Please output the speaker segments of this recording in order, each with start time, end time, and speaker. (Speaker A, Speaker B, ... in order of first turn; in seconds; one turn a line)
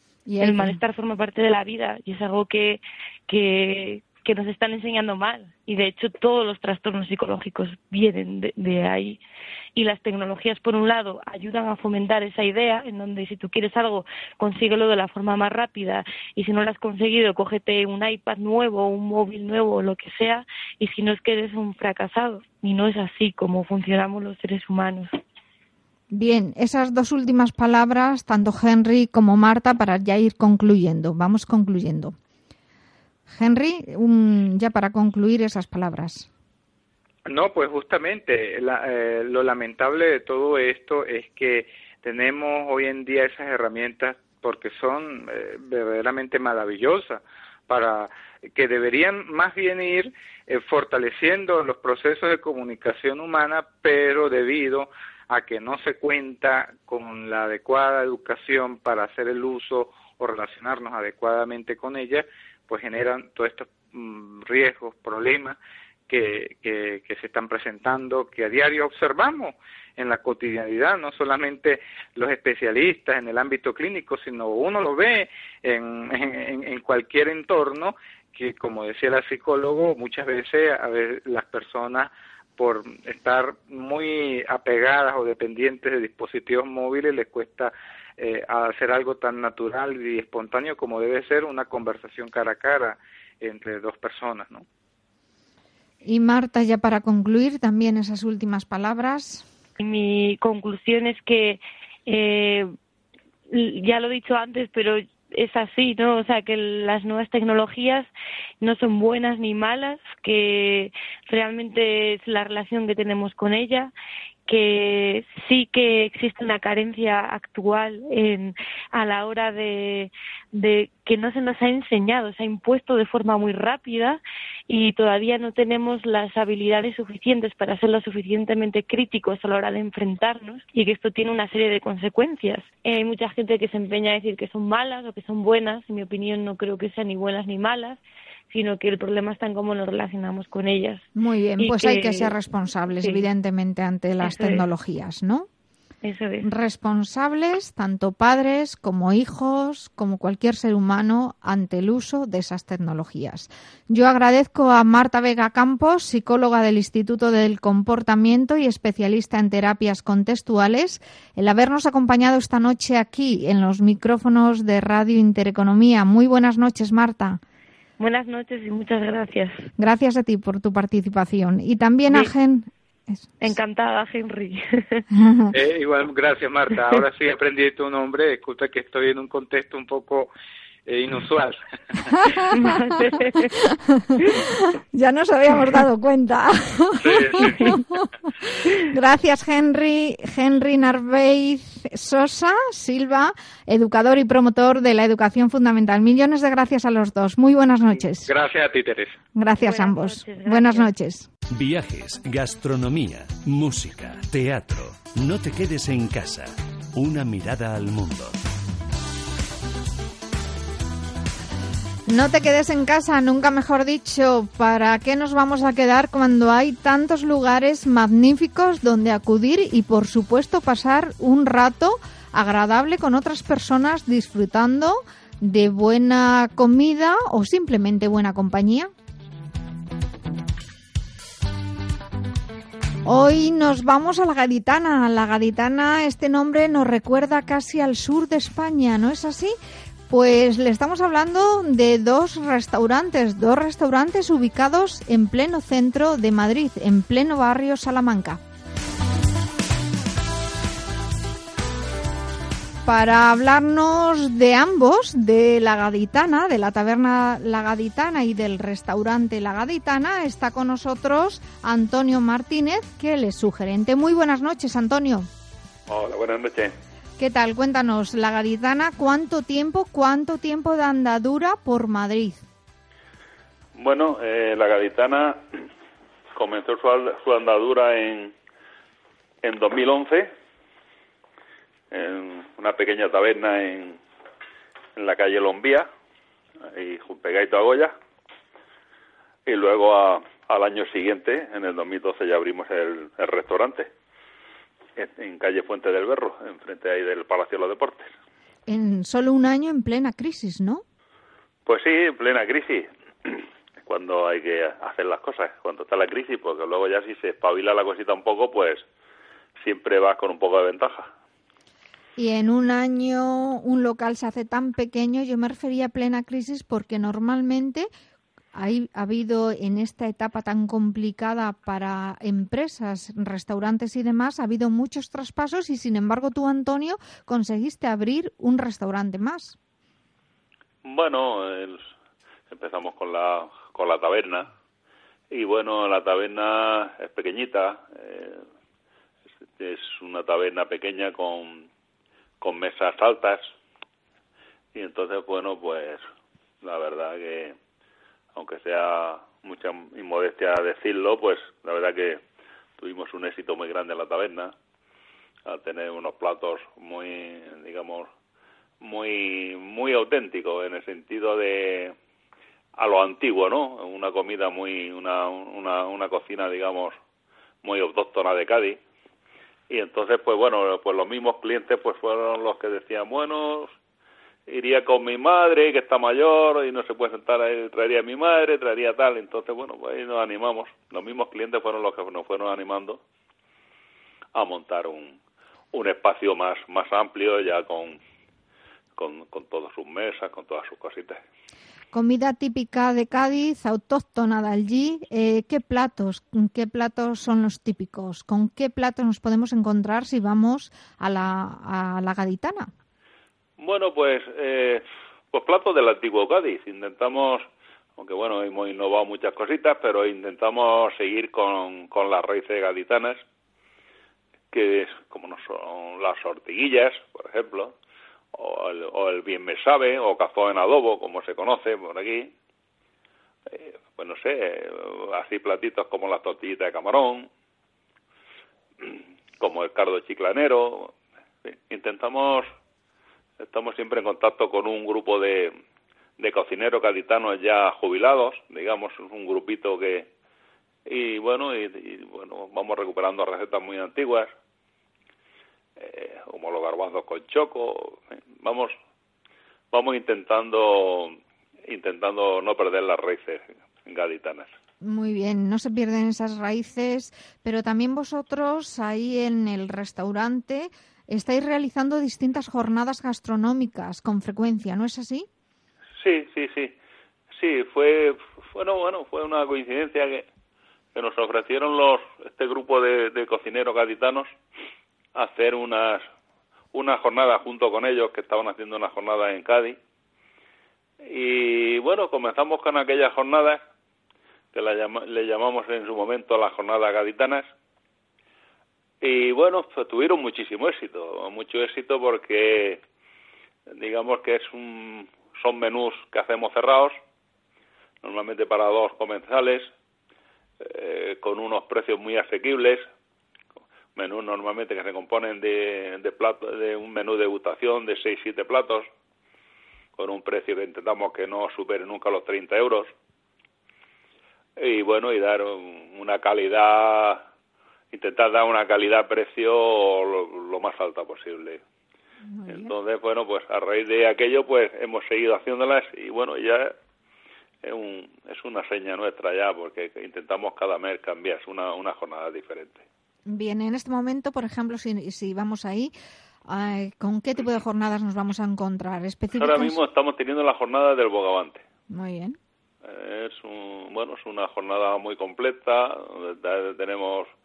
Speaker A: 0.2-0.8
Speaker B: 0.4-9.2
Speaker B: 9.7-25.1
Speaker A: 26.1-32.1
Speaker A: 33.3-36.3
Speaker C: 37.2-65.6
Speaker C: 66.1-94.6
Speaker A: 96.0-99.5
Speaker B: 99.8-102.7
Speaker B: 103.5-108.1
Speaker B: 108.6-113.9
Speaker B: 114.5-141.1
Speaker A: 141.2-145.5
Speaker B: 141.6-142.3
Speaker B: 143.0-143.2
Speaker B: 144.2-144.6
Speaker B: 146.0-146.4
Speaker A: 146.4-167.4
Speaker B: 168.0-169.7
Speaker A: 169.8-173.3
Speaker B: 173.4-175.1
Speaker A: 175.1-175.5
Speaker C: 175.5-180.3
Speaker C: 180.8-182.1
Speaker B: 182.5-183.5
Speaker A: 183.5-198.3
Speaker C: 187.0-187.8
Speaker B: 187.4-187.8
Speaker C: 198.2-199.2
Speaker A: 199.3-201.3
Speaker B: 199.6-200.9
Speaker D: 201.5-208.4
Speaker A: 212.1-228.9
Speaker A: 233.0-239.5
Speaker A: 240.1-248.4
Speaker A: 252.8-265.3
Speaker E: 265.9-266.7
Speaker A: 267.2-272.4
Speaker E: 273.7-275.4
Speaker E: 276.3-278.3
Speaker E: 279.4-280.3
Speaker E: 281.9-284.0
Speaker E: 284.9-285.9
Speaker E: 286.7-287.9
Speaker E: 289.4-293.9
Speaker E: 294.9-298.1
Speaker A: 298.7-300.8
Speaker E: 301.6-308.8
Speaker E: 309.6-311.1
Speaker A: 312.2-317.9
Speaker A: 318.5-329.6
Speaker E: 330.8-331.9
Speaker E: 332.5-334.5
Speaker E: 335.3-338.4
Speaker E: 339.6-341.7
Speaker E: 342.4-343.5
Speaker E: 344.7-346.0
Speaker E: 346.6-347.6
Speaker E: 348.3-352.2
Speaker E: 352.8-354.5
Speaker E: 355.4-358.1
Speaker E: 358.8-361.9
Speaker E: 362.8-366.9
Speaker E: 367.6-368.8
Speaker E: 369.7-373.7
Speaker E: 374.5-383.0
Speaker E: 384.3-385.2
Speaker E: 385.7-388.0
Speaker E: 388.9-391.2
Speaker A: 391.9-402.7
Speaker E: 403.6-407.4
Speaker E: 408.0-413.2
Speaker E: 414.5-417.7
Speaker E: 418.3-422.3
Speaker E: 423.5-427.3
Speaker E: 428.8-432.5
Speaker E: 433.4-435.5
Speaker E: 436.2-440.1
Speaker E: 440.8-444.3
Speaker E: 445.8-448.7
Speaker E: 449.7-451.1
Speaker E: 451.7-454.5
Speaker A: 454.8-465.3
Speaker E: 466.0-466.7
Speaker E: 467.3-470.3
Speaker E: 470.9-474.3
Speaker E: 475.1-476.1
Speaker E: 476.7-479.8
Speaker E: 481.0-483.6
Speaker E: 484.5-487.5
Speaker E: 489.0-492.8
Speaker E: 493.7-497.0
Speaker E: 498.0-499.7
Speaker E: 500.6-502.8
Speaker E: 503.9-508.9
Speaker E: 510.0-512.9
Speaker E: 514.6-517.2
Speaker E: 517.9-521.6
Speaker A: 522.3-522.7
Speaker E: 522.5-526.7
Speaker E: 527.6-532.8
Speaker A: 533.3-535.9
Speaker A: 536.5-539.8
Speaker E: 539.4-541.6
Speaker A: 541.9-542.4
Speaker E: 542.8-547.3